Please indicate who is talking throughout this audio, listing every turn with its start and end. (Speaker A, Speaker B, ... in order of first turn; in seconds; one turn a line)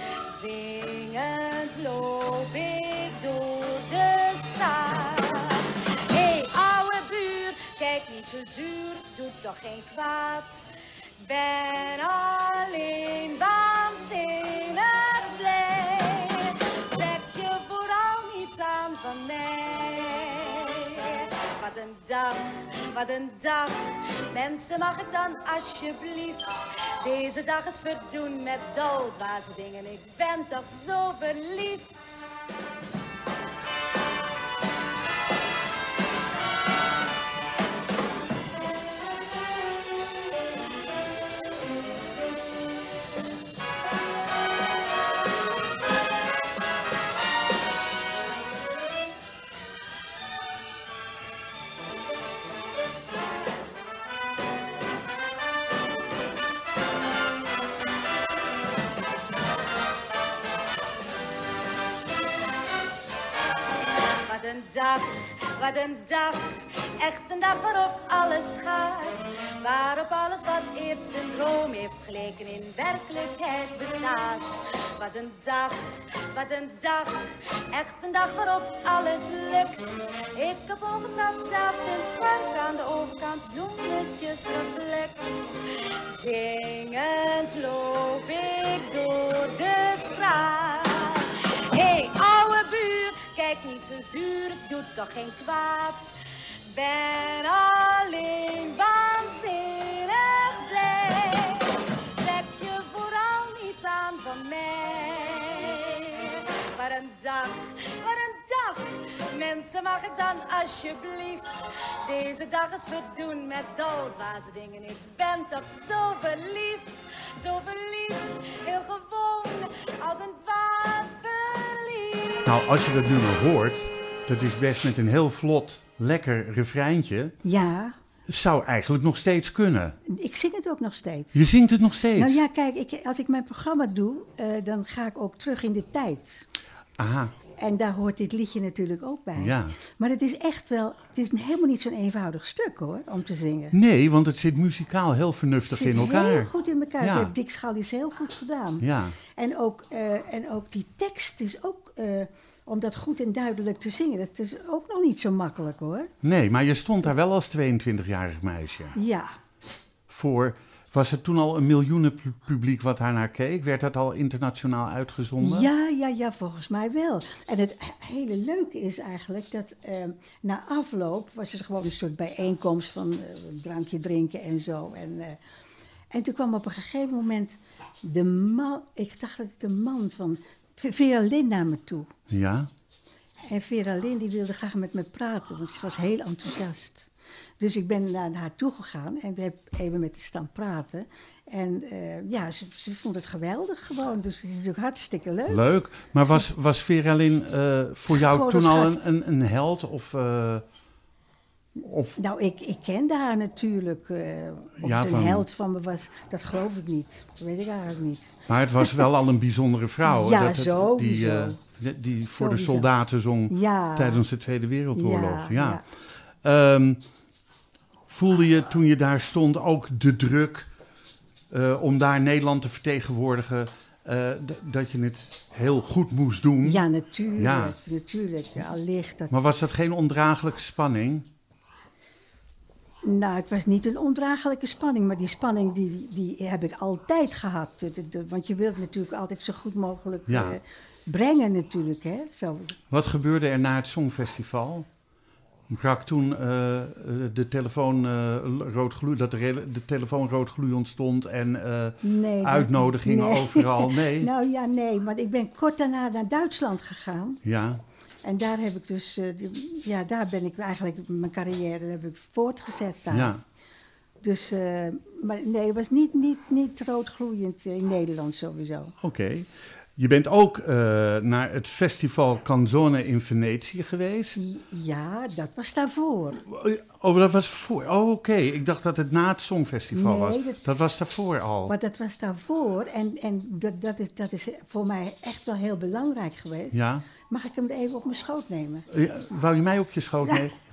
Speaker A: 0.3-32.2
Speaker A: 64.2-122.5
Speaker B: 122.5-127.4
Speaker C: 127.4-128.0
Speaker B: 128.3-130.0
Speaker C: 130.1-131.4
Speaker B: 131.3-132.4
Speaker C: 132.1-136.5
Speaker B: 137.0-137.3
Speaker C: 137.6-143.8
Speaker B: 139.4-139.8
Speaker B: 143.7-147.3
Speaker C: 145.7-156.1
Speaker B: 148.8-149.2
Speaker B: 156.2-159.0
Speaker C: 158.9-159.3
Speaker B: 160.1-165.7
Speaker C: 165.4-175.4
Speaker C: 176.1-182.1
Speaker B: 182.3-182.7
Speaker C: 183.5-195.6
Speaker B: 195.5-200.6
Speaker C: 198.1-199.0
Speaker B: 201.8-202.2
Speaker C: 202.2-209.1
Speaker B: 204.8-205.5
Speaker B: 208.5-215.9
Speaker C: 210.1-211.6
Speaker C: 212.3-212.9
Speaker C: 213.5-214.2
Speaker C: 214.9-215.8
Speaker B: 216.4-217.0
Speaker B: 218.1-220.7
Speaker B: 221.5-226.8
Speaker C: 226.6-229.3
Speaker B: 227.4-227.8
Speaker B: 229.3-231.3
Speaker C: 233.0-242.8
Speaker B: 240.3-240.6
Speaker B: 242.9-244.9
Speaker B: 245.7-254.3
Speaker C: 252.0-257.4
Speaker B: 257.4-257.8
Speaker C: 258.2-263.3
Speaker B: 263.1-263.4
Speaker C: 264.2-268.9
Speaker B: 269.0-274.4
Speaker C: 274.4-276.4
Speaker B: 276.4-281.7
Speaker C: 279.9-280.6
Speaker C: 281.7-288.9
Speaker B: 286.7-287.1
Speaker B: 288.9-290.6